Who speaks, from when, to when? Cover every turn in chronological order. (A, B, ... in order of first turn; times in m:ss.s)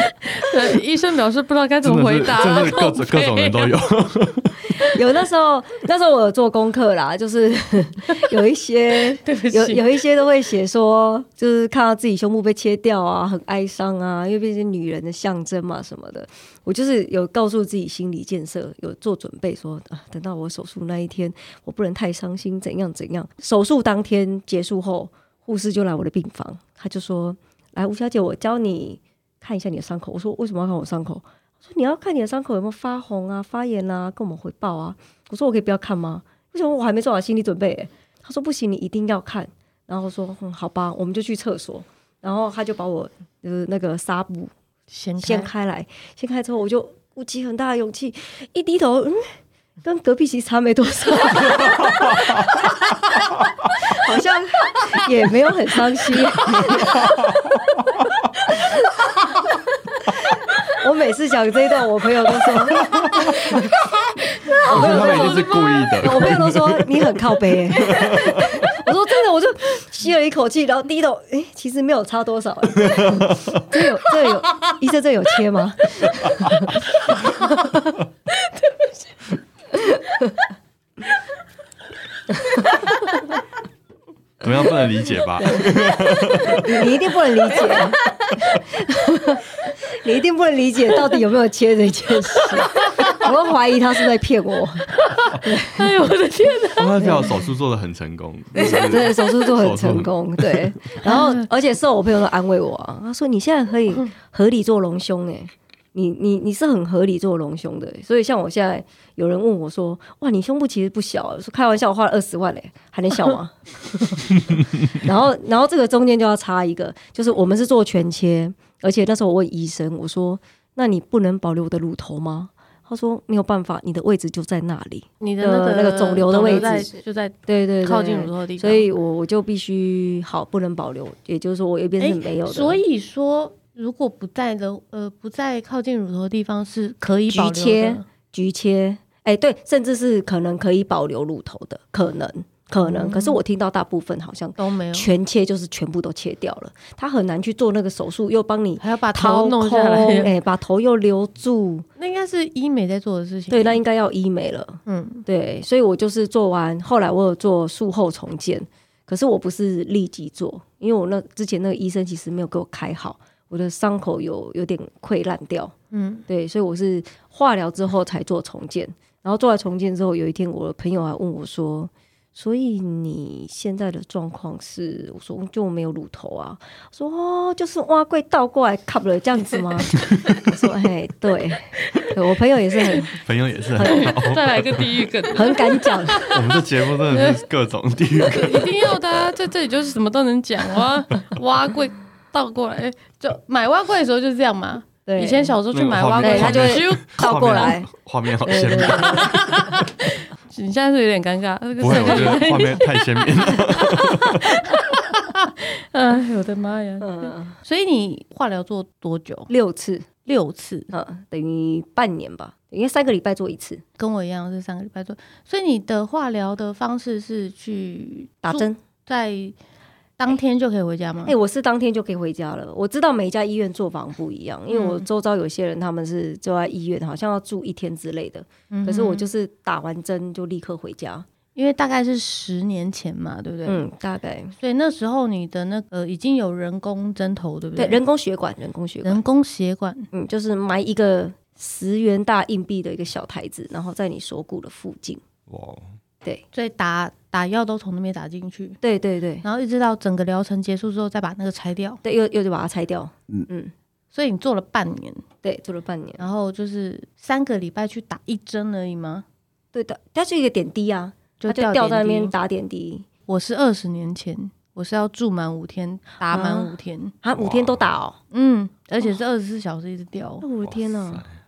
0:00.2-0:03.7 A
0:01.8-0:04.7 B
0:04.9-0:44.5 C
0:09.2-0:09.8 A
0:44.9-0:45.5 A
0:45.2-0:52.5 C
0:53.8-0:56.9 C
1:00.6-1:03.7 C
1:02.9-1:03.4 B
1:04.5-1:05.9 A
1:04.6-1:16.7 C
1:04.6-1:07.0 B
1:07.8-1:08.7 B
1:12.9-1:13.6 B
1:17.2-1:17.8 A
1:19.9-1:20.3 C
1:24.4-1:26.7 B
1:25.4-1:25.8 C
1:26.4-1:28.0 C
1:28.6-1:35.9 C
1:32.7-1:33.2 A
1:35.2-1:37.3 A
1:36.8-1:40.7 B
1:37.0-1:37.3 C
1:38.6-2:06.9 C
1:41.0-1:41.4 A
2:05.2-2:08.9 A
2:07.5-2:12.8 C
2:12.0-2:18.0 A
2:17.3-2:31.8 C
2:22.8-2:23.4 A
2:24.6-2:25.1 A
2:28.8-2:30.3 A
2:32.0-2:33.8 A
2:33.5-2:45.7 C
2:34.8-2:35.2 A
2:45.9-2:46.2 A
2:46.3-3:03.1 C
3:00.0-3:00.4 B
3:03.2-3:05.0 B
3:03.8-3:04.1 C
3:03.8-3:06.4 A
3:05.3-3:06.2 C
3:06.3-3:09.0 B
3:07.1-3:07.4 A
3:08.2-3:17.7 A
3:15.0-3:15.6 C
3:15.7-3:19.6 B
3:16.2-3:17.9 C
3:18.4-3:19.4 C
3:18.9-3:29.5 A
3:21.8-3:24.5 B
3:27.0-3:27.6 C
3:29.5-3:30.1 C
3:30.2-3:30.9 A
3:30.9-3:33.8 C
3:34.0-3:39.6 A
3:38.4-3:38.8 C
3:40.2-3:41.3 A
3:41.2-3:51.2 C
3:44.7-3:45.0 A
3:48.7-3:49.3 A
3:51.5-3:53.8 A
3:53.6-3:54.5 C
3:54.6-3:58.0 A
3:57.8-3:59.2 C
3:59.0-4:00.1 A
4:00.1-4:05.2 C
4:05.5-4:05.8 B
4:06.5-4:08.8 A
4:08.8-4:09.4 C
4:09.4-4:12.0 A
4:12.0-4:13.7 C
4:14.1-4:15.2 A
4:15.4-4:16.2 C
4:16.2-4:19.2 A
4:19.7-4:23.1 C
4:21.4-4:22.3 A
4:23.3-4:27.1 A
4:26.3-4:28.2 C
4:27.4-4:27.8 B
4:28.3-4:30.4 A
4:30.4-4:31.2 C
4:30.6-4:31.3 B